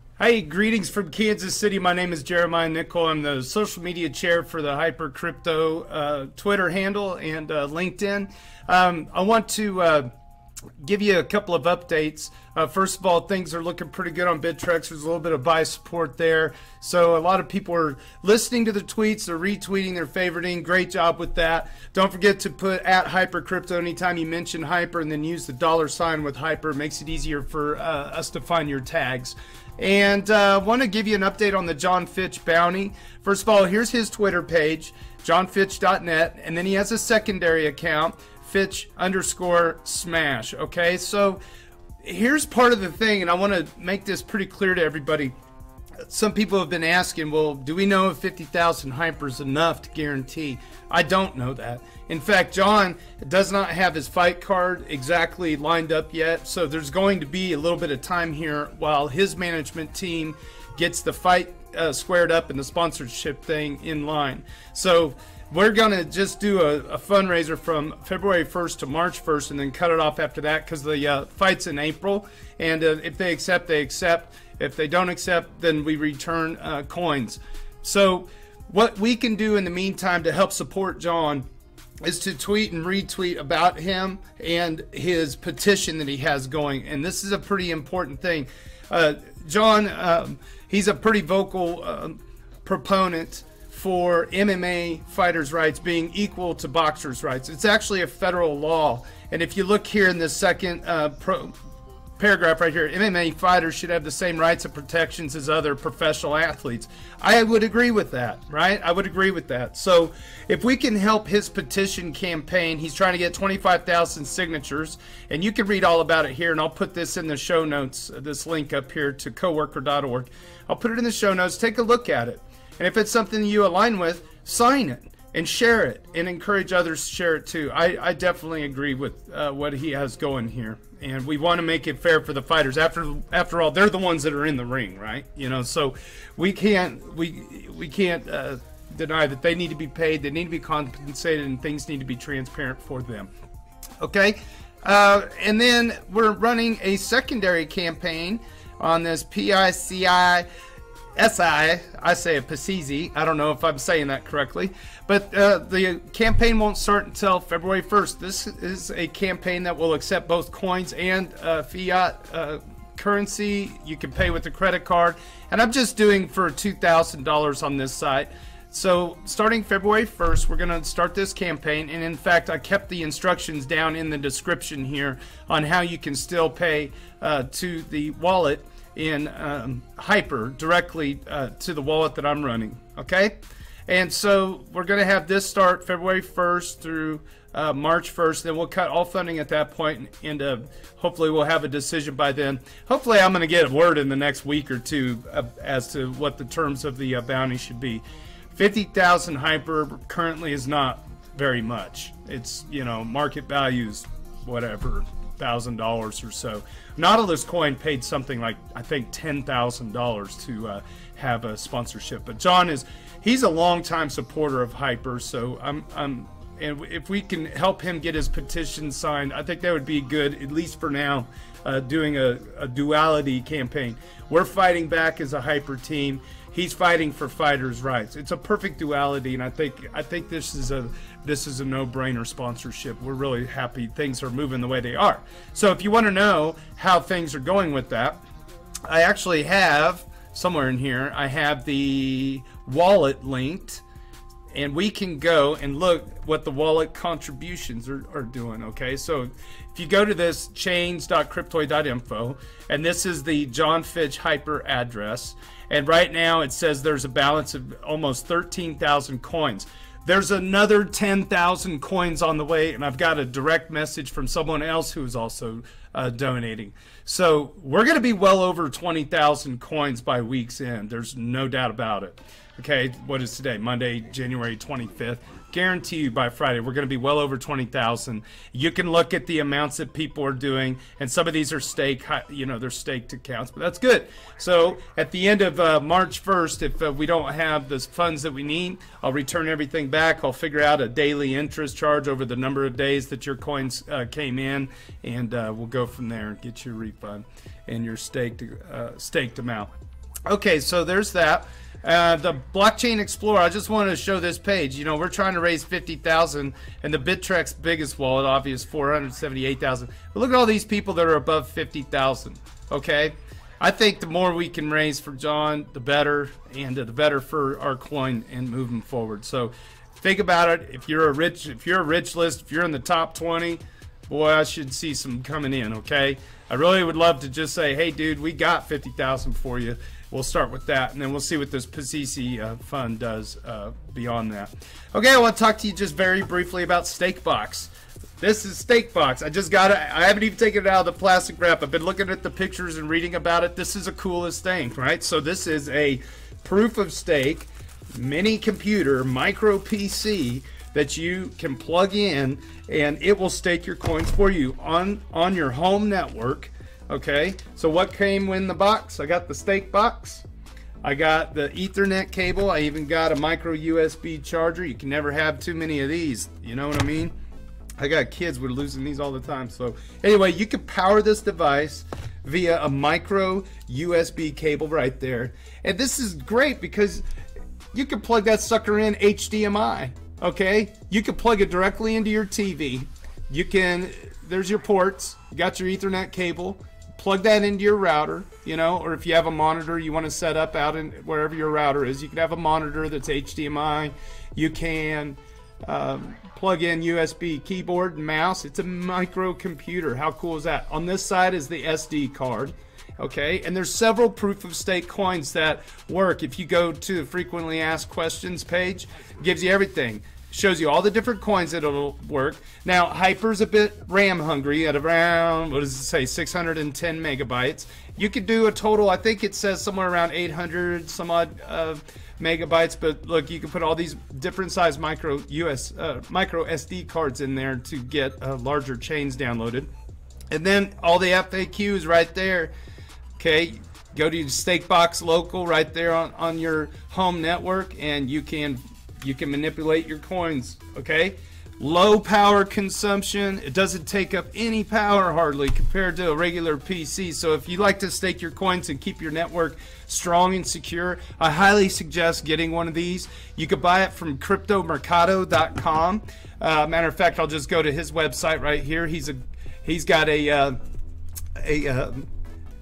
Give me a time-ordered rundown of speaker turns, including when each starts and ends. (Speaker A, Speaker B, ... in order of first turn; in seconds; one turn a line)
Speaker A: 0.2-10.1
Speaker A: 10.8-41.4
Speaker A: 42.0-45.3
Speaker A: 46.1-81.5
Speaker A: 82.0-101.5
Speaker A: 102.2-143.3
Speaker A: 144.0-150.5
Speaker A: 151.2-183.3
Speaker A: 183.9-238.2
Speaker A: 238.9-243.8
Speaker A: 244.5-299.7
Speaker A: 300.3-360.2
Speaker A: 360.8-367.1
Speaker A: 367.8-377.0
Speaker A: 377.7-429.7
Speaker A: 430.3-432.5
Speaker A: 433.2-460.6
Speaker A: 461.4-462.1